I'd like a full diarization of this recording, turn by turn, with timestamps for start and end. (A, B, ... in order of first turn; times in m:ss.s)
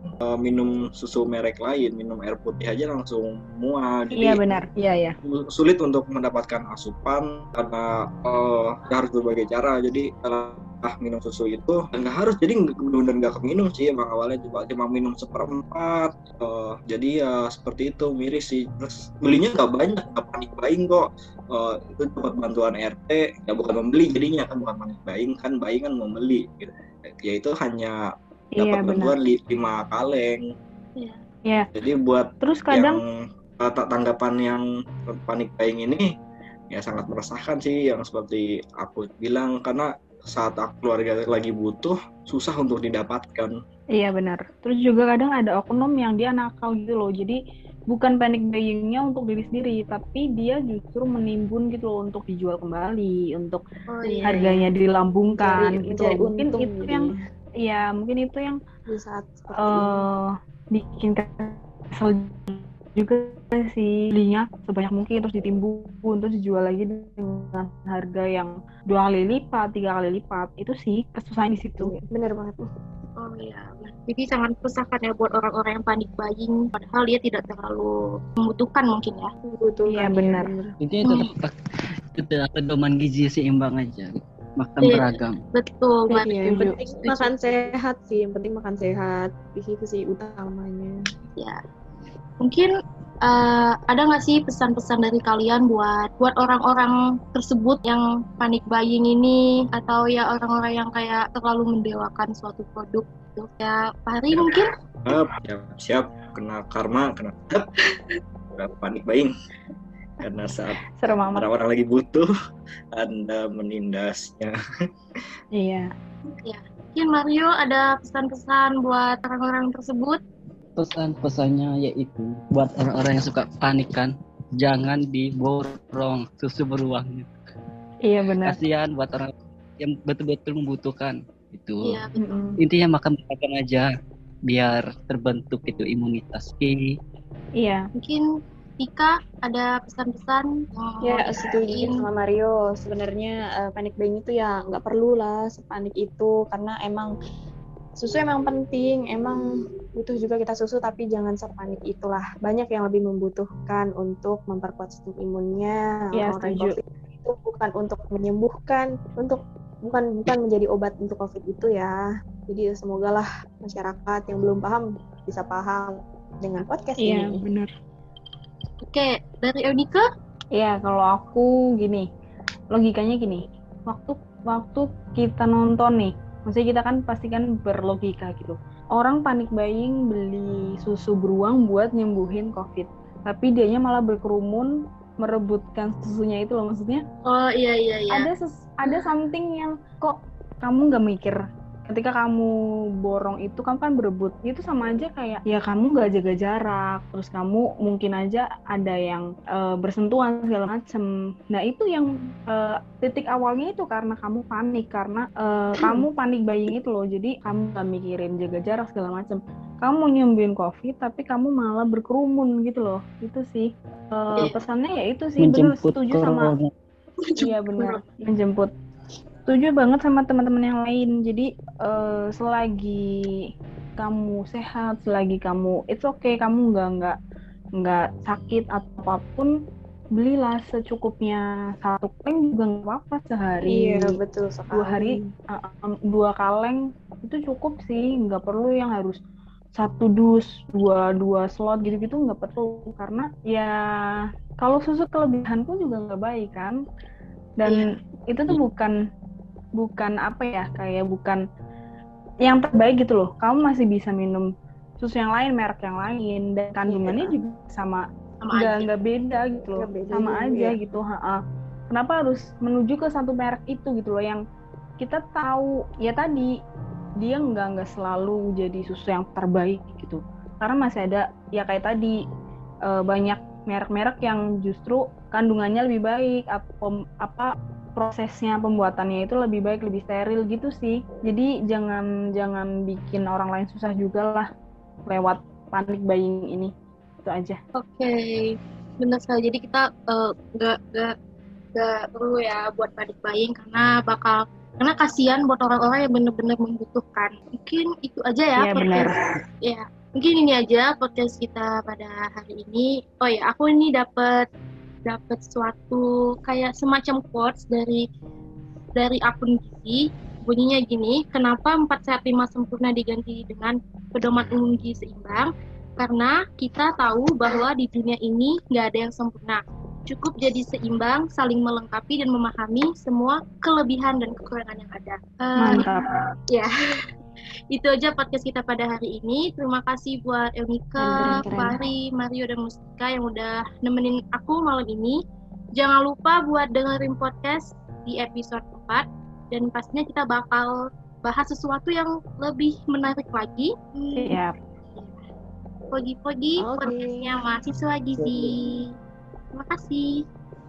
0:00.2-0:04.4 A
0:04.1-0:05.2 B
0:05.2-0:27.9 A
0:28.5-0:29.1 B
0:28.6-0:30.4 A
0:31.7-0:33.0 A
0:32.4-0:33.0 B
0:33.6-0:36.0 A
0:36.7-0:43.6 A
0:43.9-0:47.4 B
0:47.9-0:53.6 B
0:53.9-0:54.4 C
0:54.0-0:54.7 D
0:54.2-0:57.1 B
0:55.3-0:57.2 D
0:57.6-0:58.6 B
0:58.9-1:00.1 D
0:59.6-1:12.0 B
1:11.8-1:12.7 D
1:13.2-1:19.3 C
1:19.4-1:20.8 D
1:19.9-1:20.5 B
1:20.8-1:21.5 E
1:22.1-1:25.4 E
1:24.8-1:26.3 C
1:26.1-1:26.8 B
1:26.2-1:31.0 D
1:26.9-1:27.7 C
1:32.4-1:32.7 C
1:33.2-1:44.7 C
1:44.3-1:47.6 A
1:48.6-1:49.3 A
1:50.2-1:52.3 A
1:51.0-1:51.5 B
1:52.9-1:54.5 A
1:55.5-1:55.9 B
1:56.4-2:00.2 C
2:00.8-2:07.3 E
2:08.0-2:08.6 B
2:08.4-2:12.0 E
2:11.8-2:12.5 C
2:12.2-2:12.6 B
2:12.6-2:13.9 E
2:14.4-2:17.0 E
2:17.6-2:17.9 B
2:18.0-2:18.2 C
2:18.8-2:22.1 C
2:21.0-2:27.1 D
2:28.0-2:29.4 D
2:29.9-2:42.0 D
2:36.1-2:36.8 B
2:42.5-2:47.4 D
2:47.0-2:47.7 B
2:48.8-2:50.0 C
2:50.5-2:52.0 B
2:52.7-3:07.0 B
3:07.2-3:08.3 C
3:08.1-3:36.5 B
3:35.4-3:36.7 E
3:37.2-3:38.0 C
3:37.4-3:38.7 B
3:39.5-3:43.3 B
3:44.0-3:47.2 B
3:47.8-3:49.5 B
3:50.2-3:54.2 B
3:53.7-3:55.3 D
3:54.7-3:59.2 B
3:59.7-4:03.7 B
4:04.6-4:06.8 B
4:07.6-4:08.9 B
4:09.8-4:11.4 B
4:12.4-4:14.5 B
4:15.0-4:21.4 B
4:16.8-4:17.3 D
4:18.4-4:18.9 C
4:19.8-4:20.8 D
4:21.9-4:24.4 B
4:25.0-4:26.5 B
4:27.2-4:32.2 B
4:32.8-4:44.5 B
4:45.0-4:46.7 B
4:47.2-4:47.6 B
4:47.8-4:51.1 C
4:51.8-5:04.4 C
4:58.6-4:59.2 B
5:05.0-5:08.0 C
5:08.9-5:25.8 C
5:25.6-5:26.1 B
5:27.7-5:35.2 C
5:31.0-5:31.7 D
5:31.0-5:31.7 B
5:35.8-5:40.7 C
5:41.2-5:44.4 C
5:44.2-5:44.5 B
5:44.9-5:45.2 C
5:45.9-5:48.8 C
5:46.6-5:47.4 D
5:49.5-5:50.1 C